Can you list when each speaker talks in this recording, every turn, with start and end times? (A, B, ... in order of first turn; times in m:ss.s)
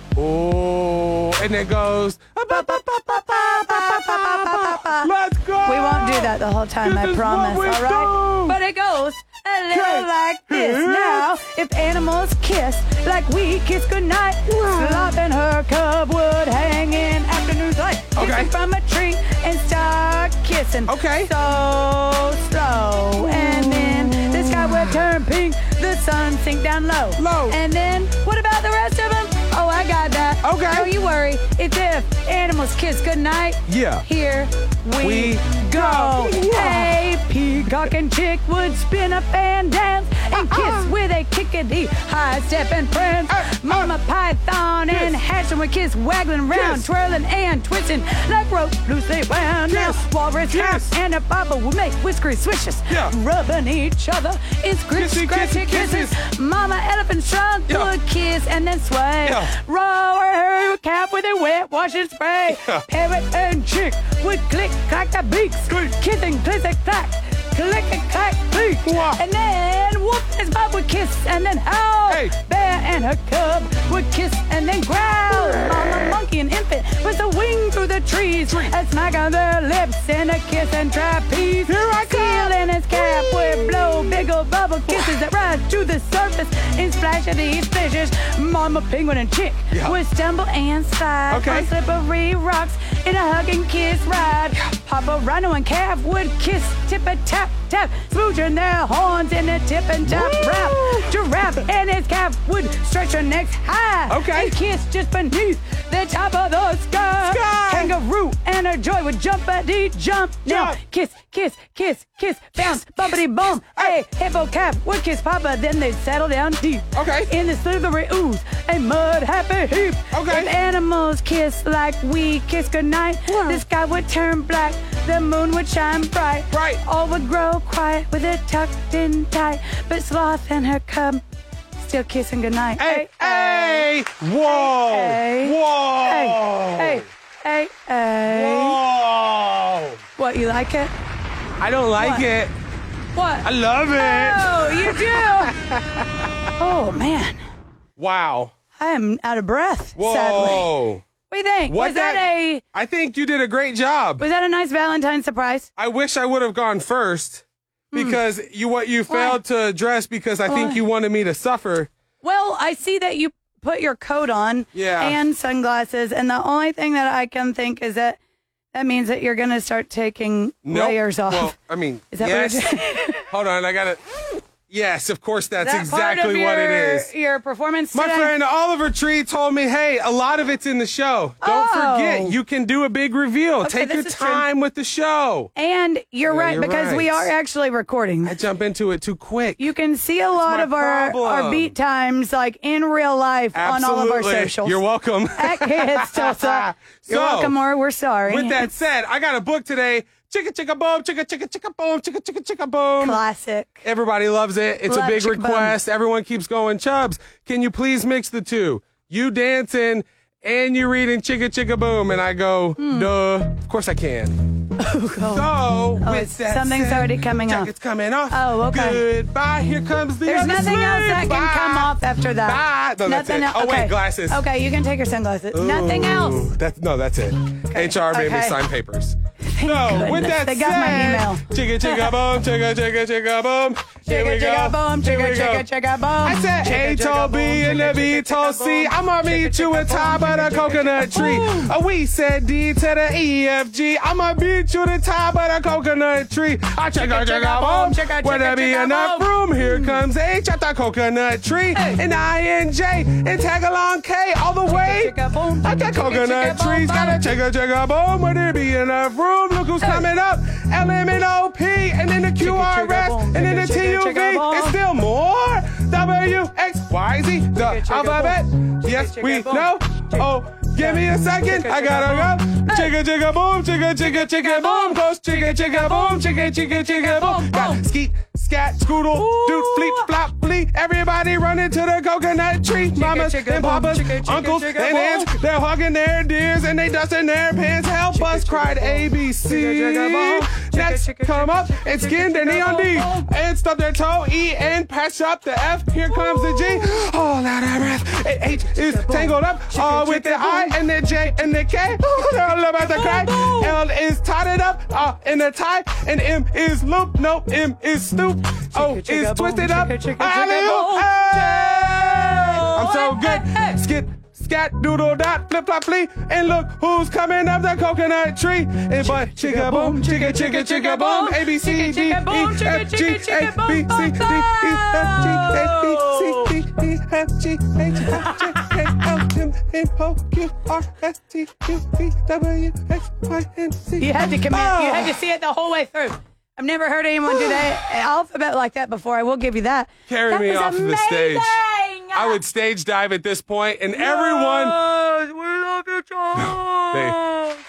0:00.2-0:08.6 A
0:02.5-0:05.1 B
0:05.6-2:11.2 B
0:09.7-0:11.3 A
0:14.5-0:15.2 A
0:18.2-0:18.5 A
0:20.9-0:21.3 A
0:23.2-0:25.0 A
0:27.2-0:27.6 A
0:30.4-0:30.9 A
0:33.7-0:34.0 A
0:35.0-0:37.0 A
0:37.6-0:37.9 A
0:40.3-0:40.9 A
0:43.3-0:43.9 A
0:44.9-0:45.2 A
0:46.5-0:46.9 A
0:49.7-0:50.9 A
0:52.9-0:53.1 A
0:55.0-0:56.2 A
0:59.2-0:59.5 A
1:02.5-1:02.8 A
1:08.8-1:09.2 A
1:12.1-1:12.3 A
1:21.6-1:24.2 A
1:24.9-1:25.2 A
1:29.7-1:30.0 A
1:31.3-1:31.7 A
1:40.0-1:41.5 A
1:44.1-1:44.6 A
1:47.2-1:48.0 A
1:50.4-1:50.8 A
1:52.6-1:53.2 A
1:56.9-1:57.3 A
2:00.1-2:00.5 A
2:03.3-2:03.6 A
2:06.5-2:06.8 A
2:11.8-2:13.9 B
2:12.8-2:17.0 A
2:14.4-2:18.8 B
2:18.2-2:20.0 A
2:20.2-2:20.9 B
2:21.6-2:22.5 A
2:22.0-2:22.3 B
2:23.1-2:25.5 B
2:23.4-2:26.3 A
2:26.6-2:27.4 B
2:28.0-2:28.5 A
2:28.8-2:30.7 B
2:30.0-2:31.0 A
2:31.3-2:32.6 B
2:31.7-2:34.2 A
2:34.2-2:35.7 B
2:35.8-2:41.9 A
2:37.9-2:38.2 B
2:39.1-2:39.4 B
2:40.4-2:40.8 B
2:42.2-2:48.2 B
2:44.7-2:45.2 A
2:48.7-2:51.5 B
2:50.6-2:57.1 A
2:52.1-2:53.3 B
2:55.6-2:58.3 B
2:57.9-3:05.5 A
3:01.4-3:02.4 B
3:03.6-3:04.5 B
3:05.5-3:08.4 B
3:06.2-3:07.3 A
3:08.2-3:09.7 A
3:09.6-3:14.8 B
3:10.3-3:11.7 A
3:13.5-3:17.6 A
3:15.3-3:18.7 B
3:18.2-3:23.2 A
3:23.0-3:23.8 B
3:23.8-3:34.5 A
3:24.8-3:25.8 B
3:32.8-3:33.1 B
3:34.8-3:37.7 B
3:35.1-3:44.4 A
3:38.3-3:39.0 B
3:40.2-3:46.5 B
3:45.5-3:55.7 A
3:47.7-3:48.6 B
3:49.5-3:52.2 B
3:54.0-4:01.7 B
3:56.2-5:35.2 A
4:07.0-4:10.0 B
4:11.7-4:12.0 B
4:14.7-4:17.4 B
4:19.8-4:20.1 B
4:22.4-4:24.8 B
4:27.5-4:32.9 B
4:34.0-4:37.8 B
4:39.1-4:40.1 B
4:42.9-4:45.3 B
4:48.1-4:53.3 B
4:56.1-4:56.9 B
4:58.6-5:00.8 B
5:02.2-5:03.8 B
5:08.7-5:13.8 B
5:19.0-5:26.5 B
5:28.0-5:28.8 B
5:34.0-5:42.4 B
5:37.3-5:37.8 A
5:40.1-5:44.8 A
5:43.9-5:47.6 B
5:46.3-5:47.2 A